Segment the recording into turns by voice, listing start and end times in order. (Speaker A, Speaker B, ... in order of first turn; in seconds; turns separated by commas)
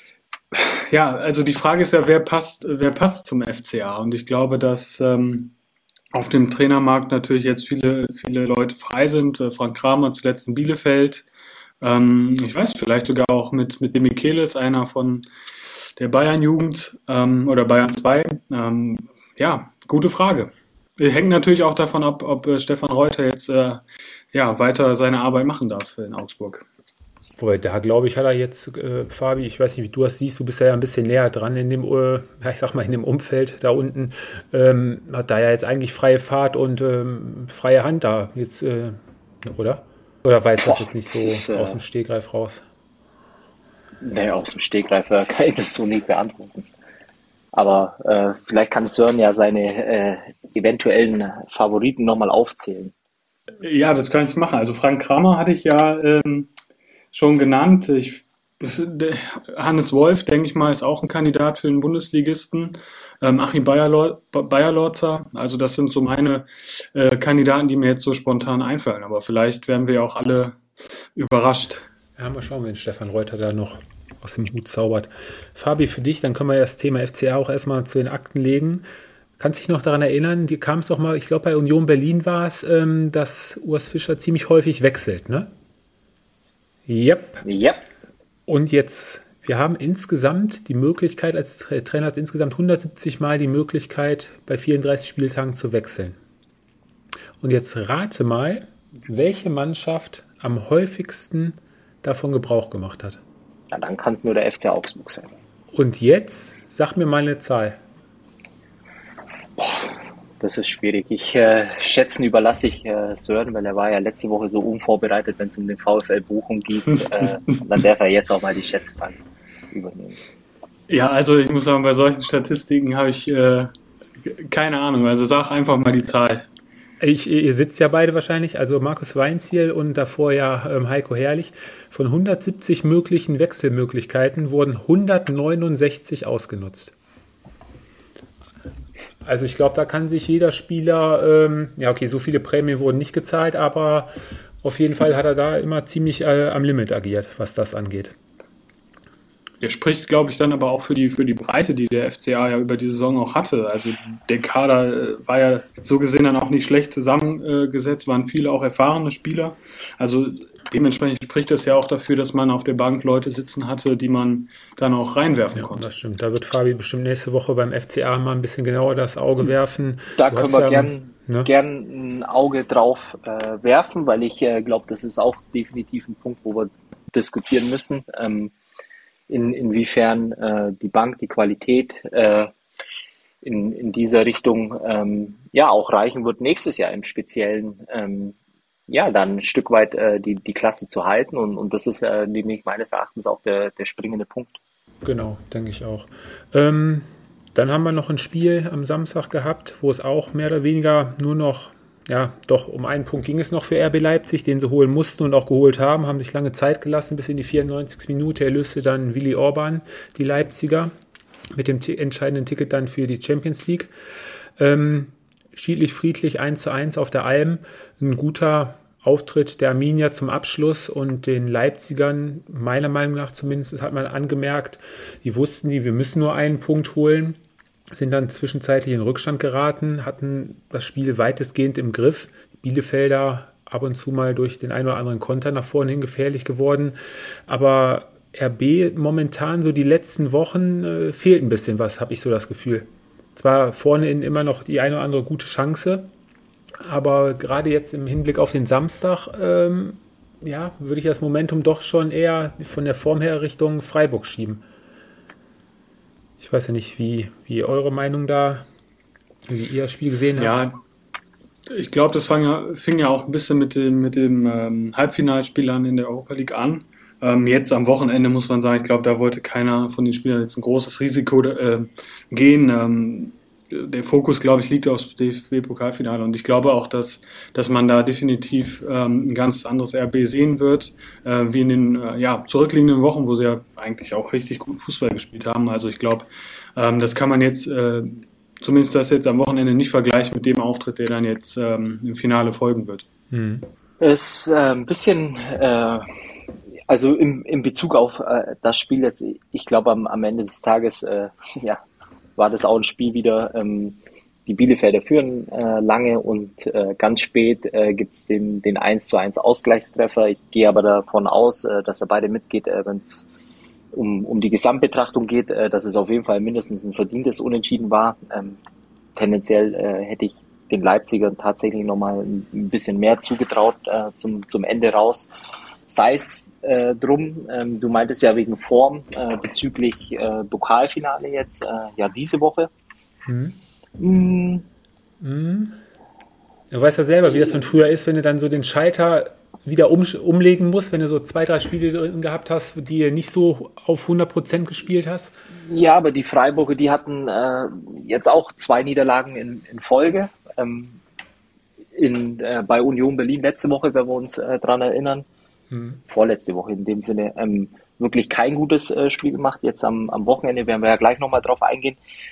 Speaker A: 0.5-5.5, Speaker A: 6.1-11.2, Speaker A: 11.8-15.2, Speaker A: 16.0-23.8, Speaker A: 24.3-26.6, Speaker B: 27.4-42.6, Speaker C: 40.6-41.8, Speaker C: 44.0-46.7, Speaker C: 47.5-52.9, Speaker A: 53.6-56.5, Speaker A: 57.1-70.6, Speaker A: 71.1-71.8, Speaker B: 72.2-78.8, Speaker B: 79.4-85.5, Speaker B: 86.9-87.4, Speaker C: 87.4-87.8, Speaker B: 88.5-96.2, Speaker B: 97.4-103.2, Speaker C: 103.7-105.3, Speaker B: 105.7-107.8, Speaker C: 109.6-120.2, Speaker A: 120.9-126.5, Speaker B: 127.0-136.9, Speaker B: 139.2-144.1, Speaker B: 144.6-148.1, Speaker A: 149.6-165.8, Speaker B: 165.5-171.5, Speaker C: 170.2-178.5, Speaker C: 179.3-182.5, Speaker C: 183.4-188.3, Speaker C: 188.9-194.6, Speaker B: 195.0-210.9, Speaker B: 211.5-213.9, Speaker B: 214.6-227.4, Speaker B: 227.9-236.9, Speaker B: 237.5-246.1, Speaker B: 246.8-254.6, Speaker B: 256.4-258.6, Speaker B: 259.5-260.6, Speaker A: 260.4-260.8, Speaker A: 261.7-293.0, Speaker B: 293.3-293.7, Speaker C: 294.0-296.2, Speaker C: 296.9-301.8, Speaker C: 302.4-313.3, Speaker C: 313.9-318.6, Speaker C: 319.1-325.3, Speaker C: 325.9-332.7, Speaker B: 333.2-333.6, Speaker C: 334.0-334.6, Speaker B: 335.2-335.8, Speaker B: 336.7-345.3, Speaker C: 345.6-351.0, Speaker C: 351.9-355.2, Speaker B: 355.7-356.0, Speaker C: 356.1-362.0